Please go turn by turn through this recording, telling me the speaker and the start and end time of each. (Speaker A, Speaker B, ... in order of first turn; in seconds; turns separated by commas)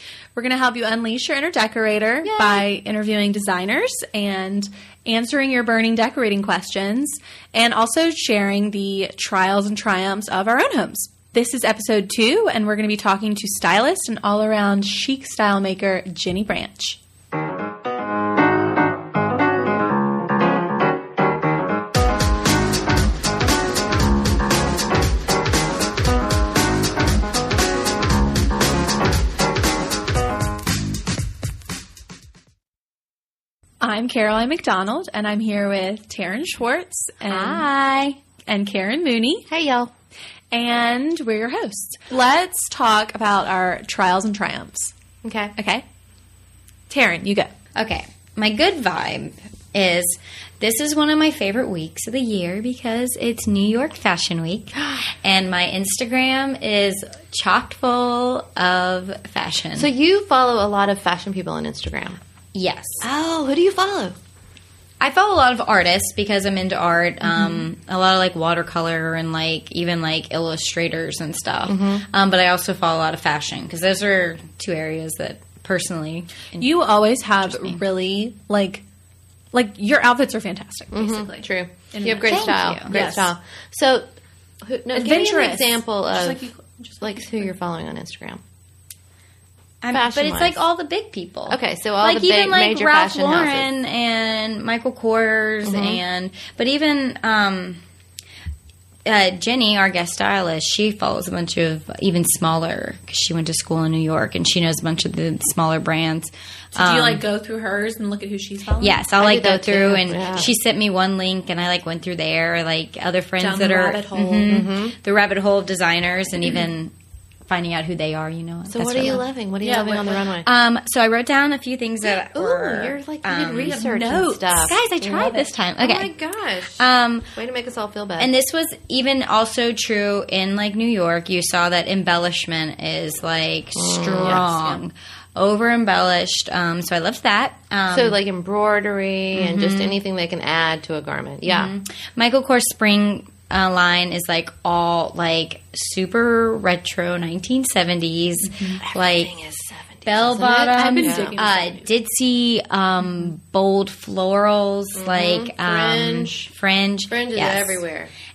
Speaker A: 0.3-17.0, Speaker B: 2.2-2.6, Speaker A: 33.8-37.7, Speaker C: 37.3-38.2, Speaker A: 38.5-39.5, Speaker B: 39.5-39.9, Speaker A: 40.5-44.9, Speaker B: 45.2-45.5, Speaker A: 45.5-45.8, Speaker A: 46.9-47.5, Speaker C: 47.8-59.9, Speaker B: 59.8-62.2, Speaker C: 62.5-63.0, Speaker B: 63.0-64.2, Speaker C: 65.0-76.7, Speaker B: 71.7-72.0, Speaker A: 76.6-78.8, Speaker C: 77.4-77.8, Speaker A: 79.5-83.3, Speaker B: 80.9-84.1, Speaker C: 82.2-82.9, Speaker B: 84.6-86.4, Speaker A: 84.9-87.2, Speaker B: 87.0-88.4, Speaker C: 89.8-97.8, Speaker B: 89.9-90.6, Speaker B: 91.5-93.7, Speaker B: 95.6-96.0, Speaker C: 99.0-107.2, Speaker A: 106.7-109.0, Speaker C: 108.8-116.9, Speaker B: 109.2-110.5, Speaker A: 113.4-114.5, Speaker B: 114.5-114.9, Speaker C: 117.5-119.2, Speaker B: 118.7-120.5, Speaker A: 119.0-120.2, Speaker C: 120.4-123.8, Speaker B: 122.0-128.3, Speaker A: 123.7-125.5, Speaker C: 124.6-126.1, Speaker C: 126.8-127.3, Speaker C: 128.2-138.2, Speaker B: 133.7-134.7, Speaker B: 137.9-141.7, Speaker C: 139.3-140.0, Speaker C: 141.4-149.3, Speaker B: 148.8-151.3, Speaker C: 150.1-157.8, Speaker A: 150.7-151.8, Speaker B: 154.9-156.5, Speaker B: 157.1-158.1